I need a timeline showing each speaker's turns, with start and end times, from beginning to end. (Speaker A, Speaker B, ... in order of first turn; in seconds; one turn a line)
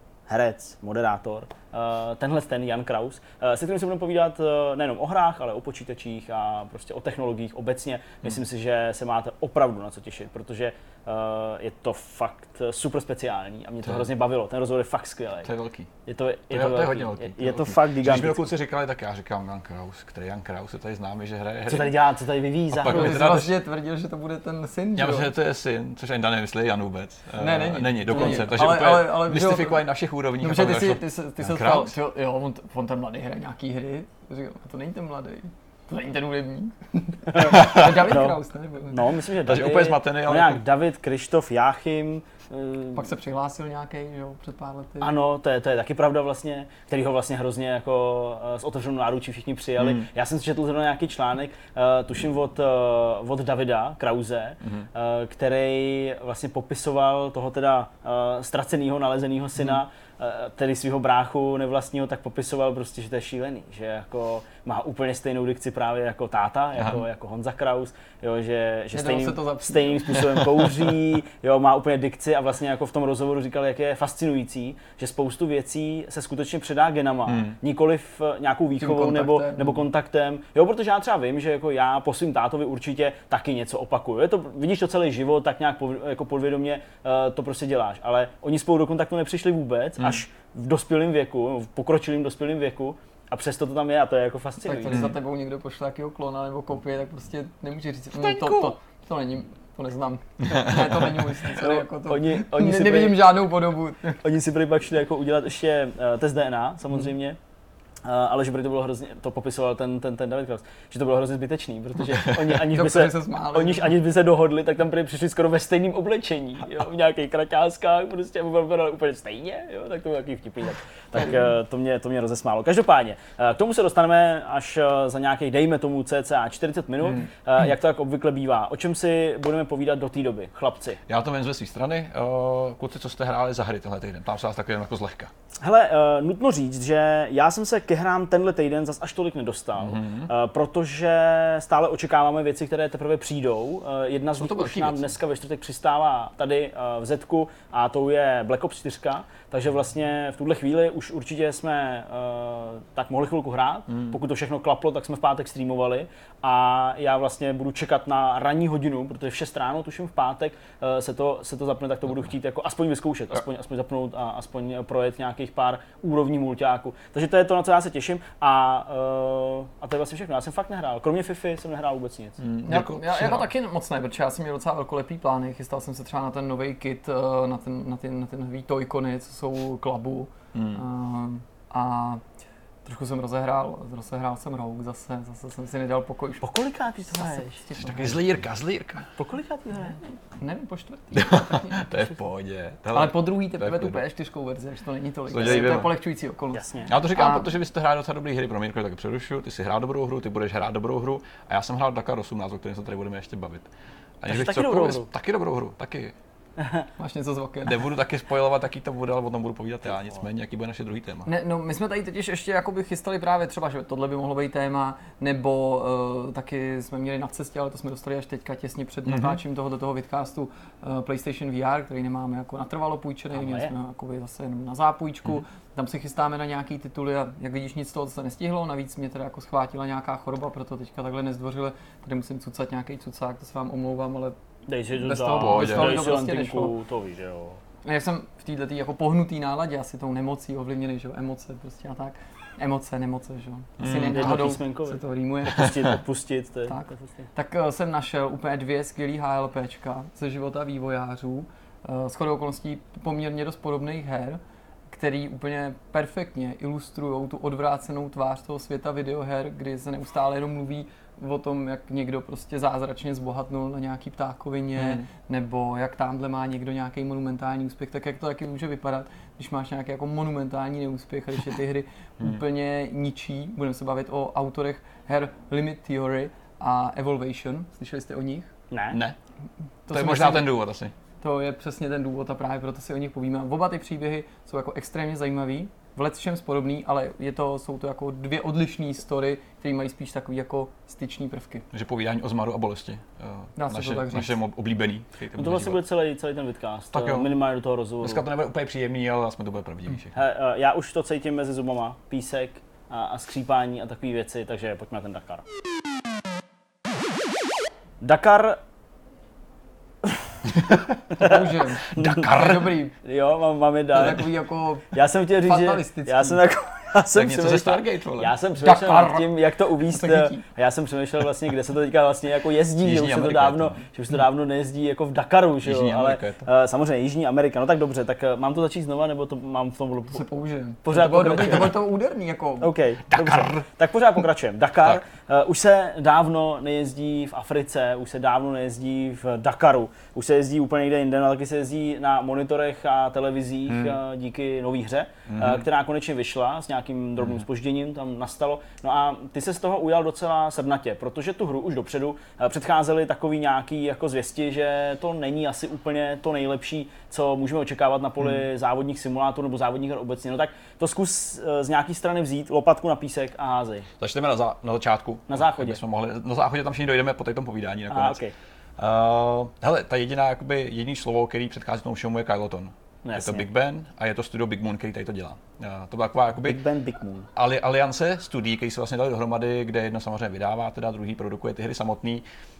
Speaker A: 0.3-15.5
Speaker B: 15.4-15.9
Speaker A: 16.1-18.5
Speaker B: 16.5-22.0
Speaker A: 21.6-23.3
Speaker B: 22.7-23.5
Speaker C: 22.9-25.3
Speaker B: 24.9-31.9
Speaker C: 27.4-29.8
Speaker A: 28.1-28.4
Speaker C: 30.4-39.0
Speaker A: 37.3-38.4
Speaker B: 37.5-38.1
Speaker A: 38.9-43.1
Speaker B: 39.4-40.6
Speaker C: 42.9-45.1
Speaker A: 45.0-95.1
Speaker B: 49.8-50.1
Speaker B: 66.8-67.0
Speaker C: 68.9-70.4
Speaker B: 70.4-70.7
Speaker B: 77.2-77.6
Speaker C: 78.8-79.8
Speaker C: 94.6-104.2
Speaker B: 94.9-95.1
Speaker B: 100.5-101.3
Speaker A: 101.5-103.3
Speaker A: 104.2-107.4
Speaker A: 108.0-131.0
Speaker B: 112.1-112.6
Speaker C: 112.7-113.9
Speaker B: 131.1-135.3
Speaker A: 135.6-172.4
Speaker B: 139.8-140.3
Speaker B: 144.4-145.1
Speaker B: 153.9-154.2
Speaker B: 172.4-173.5
Speaker C: 172.6-182.2
Speaker B: 180.5-180.8
Speaker C: 182.8-186.4
Speaker A: 186.4-187.6
Speaker C: 187.1-188.2
Speaker B: 187.8-189.1
Speaker A: 189.2-190.0
Speaker C: 189.8-192.0
Speaker B: 191.1-194.0
Speaker C: 192.9-197.5
Speaker B: 195.3-195.9
Speaker A: 195.4-195.8
Speaker A: 196.5-196.9
Speaker B: 196.8-203.7
Speaker B: 204.2-206.1
Speaker A: 204.3-205.1
Speaker A: 206.6-206.8
Speaker C: 207.0-207.9
Speaker B: 207.6-211.3
Speaker C: 211.2-234.3
Speaker B: 219.1-219.4
Speaker A: 223.3-223.7
Speaker A: 234.7-237.6
Speaker C: 234.9-236.7
Speaker B: 235.3-236.0
Speaker C: 237.8-245.8
Speaker B: 243.8-244.6
Speaker A: 244.1-247.3
Speaker C: 246.7-254.4
Speaker C: 254.9-278.5
Speaker B: 264.8-265.1
Speaker A: 278.7-279.0
Speaker B: 278.9-279.2
Speaker C: 279.9-280.5
Speaker B: 279.9-280.9
Speaker C: 281.2-291.6
Speaker B: 291.7-295.8
Speaker C: 293.6-294.4
Speaker A: 295.4-298.2
Speaker B: 296.9-297.3
Speaker B: 298.0-300.1
Speaker A: 300.1-305.4
Speaker A: 308.0-308.6
Speaker B: 310.5-310.8
Speaker C: 311.1-312.9
Speaker A: 311.9-312.3
Speaker B: 311.9-312.7
Speaker A: 313.0-314.3
Speaker C: 313.9-316.4
Speaker A: 314.9-330.2
Speaker B: 317.1-318.3
Speaker C: 318.6-320.4
Speaker B: 322.8-323.8
Speaker B: 325.6-326.4
Speaker C: 330.1-332.7
Speaker A: 330.8-331.8
Speaker A: 332.6-363.9
Speaker B: 333.1-333.6
Speaker B: 343.7-344.0
Speaker B: 345.3-345.6
Speaker B: 364.0-368.2
Speaker A: 365.3-365.8
Speaker A: 367.9-368.3
Speaker B: 368.8-376.6
Speaker A: 373.0-373.5
Speaker A: 376.4-377.3
Speaker B: 377.3-382.2